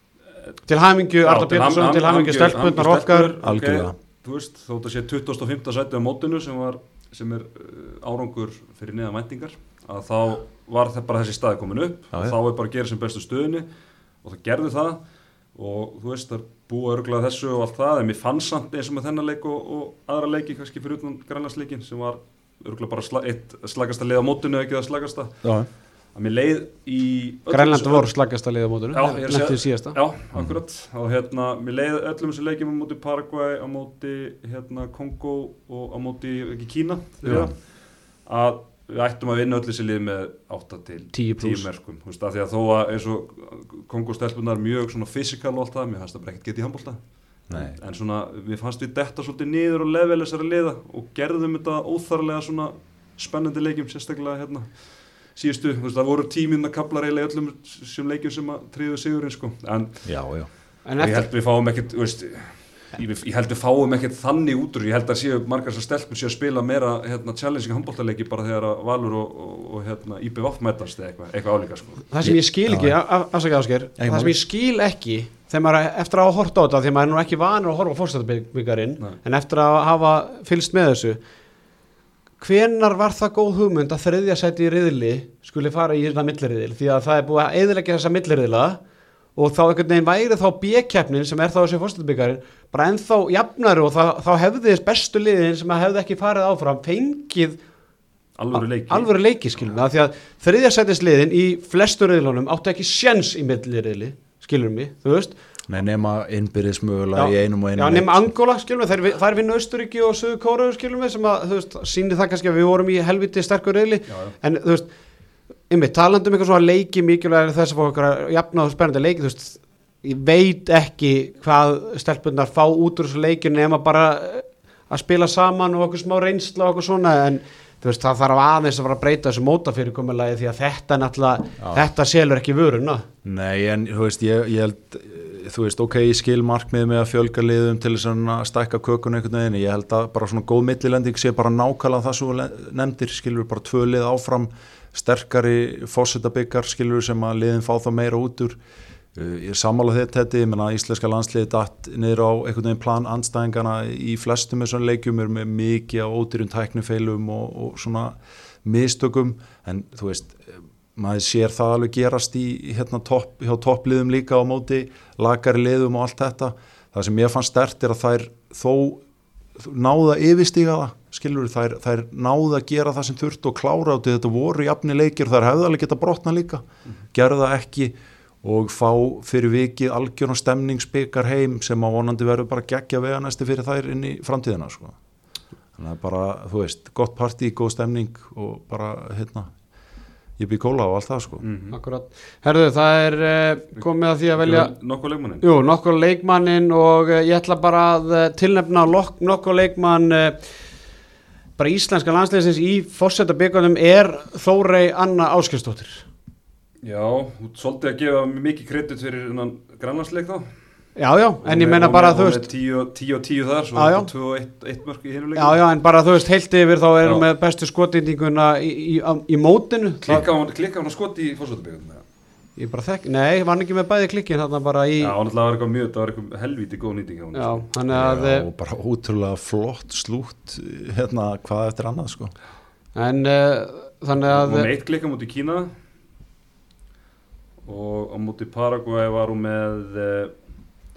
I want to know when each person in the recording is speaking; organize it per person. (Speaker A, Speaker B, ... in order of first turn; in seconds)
Speaker A: 0.7-3.3, 27.5-30.0, 41.1-41.7, 60.9-61.3, 72.1-81.2, 82.4-88.8, 89.4-97.6, 98.5-105.4, 107.2-114.9, 115.7-133.1, 191.7-194.7, 195.4-200.5, 201.6-206.1, 211.0-212.5, 213.8-214.1, 215.3-220.2, 222.6-225.2, 227.3-228.5, 232.9-234.7
Speaker B: 1.2-13.7, 14.2-15.0, 15.6-25.5, 26.1-28.1, 28.9-37.7, 38.3-60.2, 61.0-72.1, 98.4-99.1, 114.1-114.4, 191.4-191.8, 194.4-195.4, 206.8-210.5, 211.4-215.6, 220.1-222.0, 225.0-227.7, 234.2-235.7, 237.6-240.3
Speaker C: 3.4-4.0, 25.4-25.7, 47.5-47.8, 60.0-60.5, 72.2-73.0, 74.0-74.3, 105.7-108.3, 133.2-148.6, 149.1-169.0, 169.6-185.0, 185.8-189.5, 190.4-191.4, 227.9-232.3